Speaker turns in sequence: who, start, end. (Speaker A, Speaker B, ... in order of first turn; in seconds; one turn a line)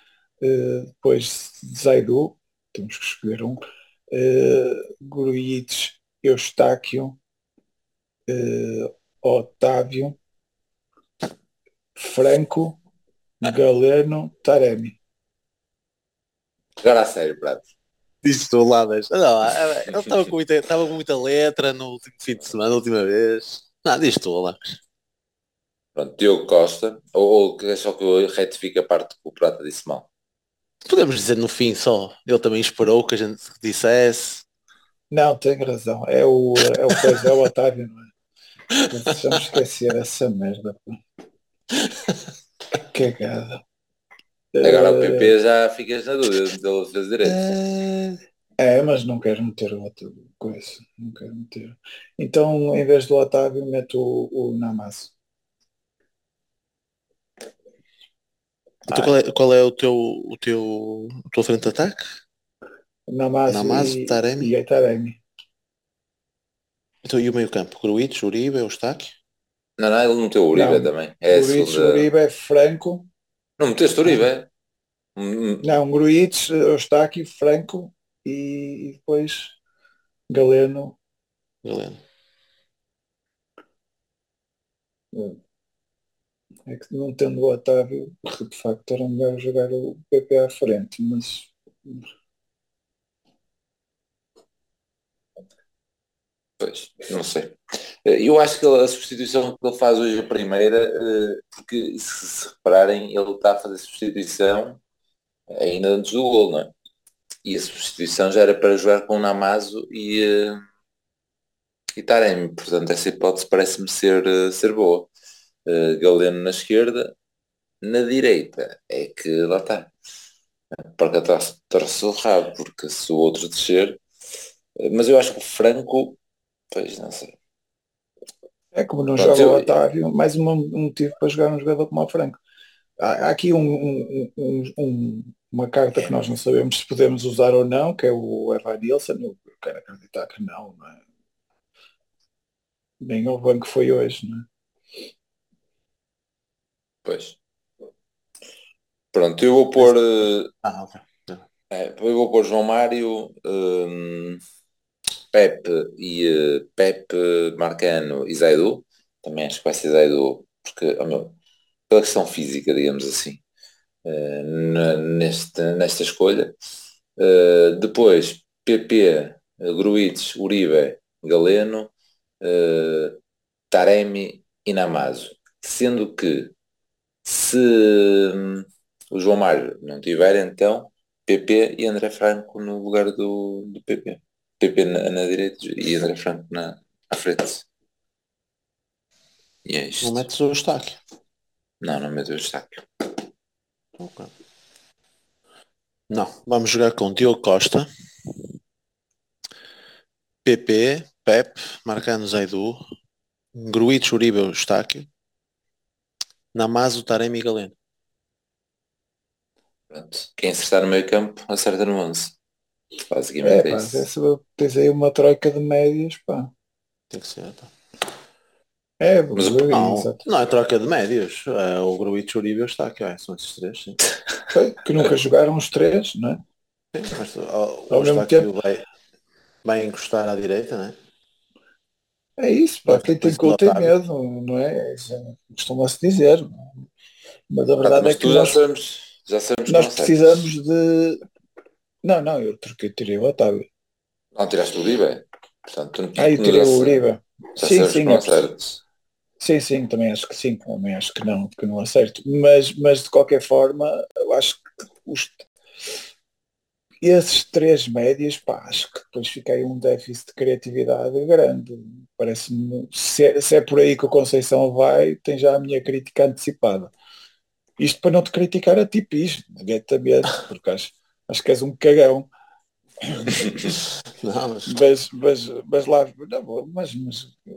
Speaker A: 0.4-7.2
Speaker A: 8.3-10.2
Speaker A: 12.0-12.8
Speaker A: 13.4-15.0
Speaker B: 16.8-17.6
Speaker C: 18.2-24.8
Speaker B: 25.9-30.1
Speaker C: 30.9-34.4
Speaker A: 35.1-38.1
Speaker A: 38.9-41.0
Speaker A: 42.8-43.6
Speaker A: 44.5-45.3
Speaker B: 44.6-47.5
Speaker C: 47.2-48.2
Speaker A: 48.6-55.1
Speaker B: 58.9-59.1
Speaker C: 58.9-62.1
Speaker A: 63.1-65.2
Speaker C: 63.5-64.5
Speaker C: 67.0-69.1
Speaker B: 69.8-72.1
Speaker A: 70.5-73.1
Speaker B: 73.6-74.5
Speaker B: 75.2-75.6
Speaker A: 75.6-79.5
Speaker A: 80.3-81.0
Speaker C: 81.6-82.0
Speaker A: 85.1-85.4
Speaker A: 86.7-92.0
Speaker B: 96.6-104.8
Speaker B: 105.5-106.7
Speaker B: 107.4-110.6
Speaker B: 112.0-115.1
Speaker B: 115.7-117.1
Speaker B: 117.8-119.9
Speaker B: 120.9-124.0
Speaker B: 124.8-126.2
Speaker B: 126.7-127.3
Speaker A: 128.7-132.4
Speaker B: 129.2-129.7
Speaker A: 133.0-141.0
Speaker A: 143.0-144.5
Speaker B: 147.0-147.3
Speaker B: 149.1-150.5
Speaker C: 150.6-151.4
Speaker B: 151.7-154.4
Speaker B: 155.3-161.3
Speaker B: 161.9-163.4
Speaker B: 164.0-166.5
Speaker B: 167.2-173.2
Speaker B: 173.7-176.5
Speaker B: 177.2-187.6
Speaker B: 189.6-190.2
Speaker C: 190.0-191.0
Speaker B: 191.8-193.2
Speaker C: 194.0-194.3
Speaker C: 196.1-197.9
Speaker C: 200.4-202.8
Speaker C: 203.5-205.1
Speaker C: 206.5-207.7
Speaker B: 209.9-212.3
Speaker B: 213.1-214.0
Speaker A: 213.4-216.5
Speaker C: 217.1-217.7
Speaker A: 219.0-220.2
Speaker C: 219.7-224.0
Speaker A: 224.5-226.4
Speaker C: 226.9-228.8
Speaker A: 227.9-228.5
Speaker C: 229.6-230.9
Speaker A: 232.4-236.8
Speaker C: 232.9-233.9
Speaker A: 237.5-238.6
Speaker B: 237.8-240.2
Speaker A: 239.7-241.2
Speaker A: 242.0-243.7
Speaker B: 244.3-247.0
Speaker A: 246.2-248.4
Speaker B: 247.6-248.8
Speaker A: 249.4-255.5
Speaker A: 257.0-266.9
Speaker A: 267.8-272.3
Speaker A: 273.0-273.5
Speaker C: 274.2-274.8
Speaker A: 274.7-277.4